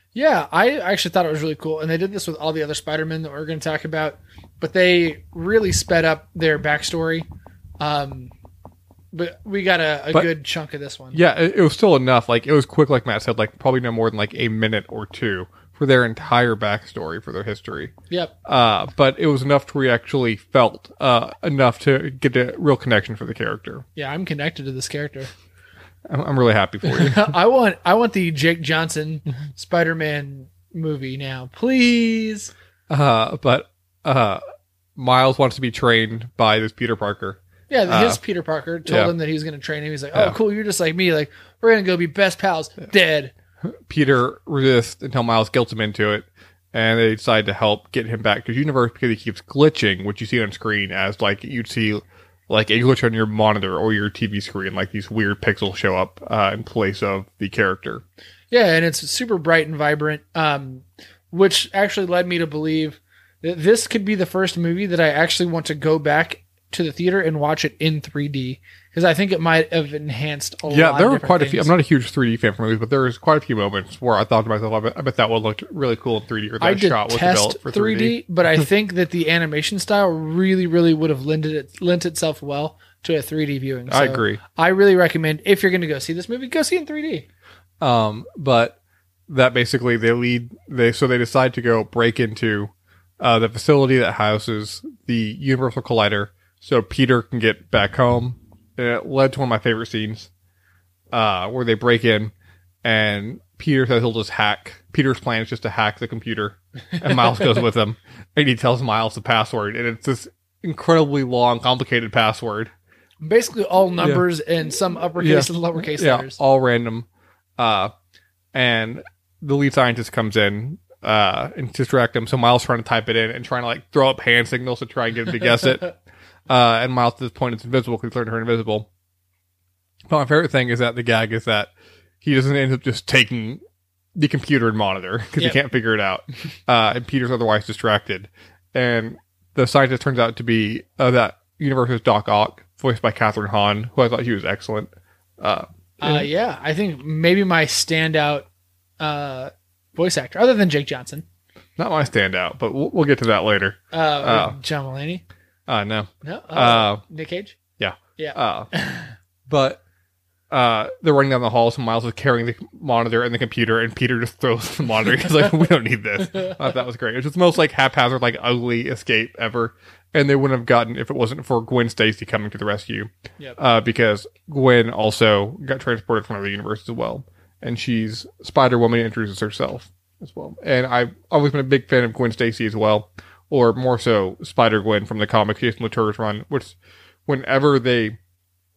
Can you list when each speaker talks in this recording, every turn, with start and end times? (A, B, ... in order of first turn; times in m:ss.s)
0:00.1-0:07.3 A
0:07.8-0:08.3 A
0:09.1-0:11.2 A
0:11.1-0:17.9 B
0:18.4-0:23.8 B
0:24.0-0:25.3 A
0:26.1-0:27.3 B
0:26.8-0:32.5 A
0:32.9-0:34.4 B
0:35.0-0:38.2 B
0:37.7-0:43.3 A
0:38.9-0:39.1 B
0:43.6-0:58.0 B
0:58.5-1:11.7 A
1:10.7-1:18.2 B
1:16.6-1:27.3 A
1:23.9-1:24.4 B
1:27.8-1:40.3 B
1:41.1-1:42.3 B
1:42.8-1:52.7 B
1:53.2-1:56.4 A
1:55.2-1:57.1 B
1:57.6-1:57.9 B
1:58.5-2:05.9 B
2:06.5-2:08.9 B
2:10.1-2:13.6 B
2:14.2-2:26.3 B
2:26.0-2:28.5 A
2:29.0-2:31.2 A
2:31.8-2:34.6 B
2:33.9-2:35.2 A
2:35.7-2:37.0 B
2:36.2-2:37.6 A
2:37.8-2:38.7 B
2:38.2-2:39.1 A
2:39.5-2:39.8 B
2:40.5-3:08.2 B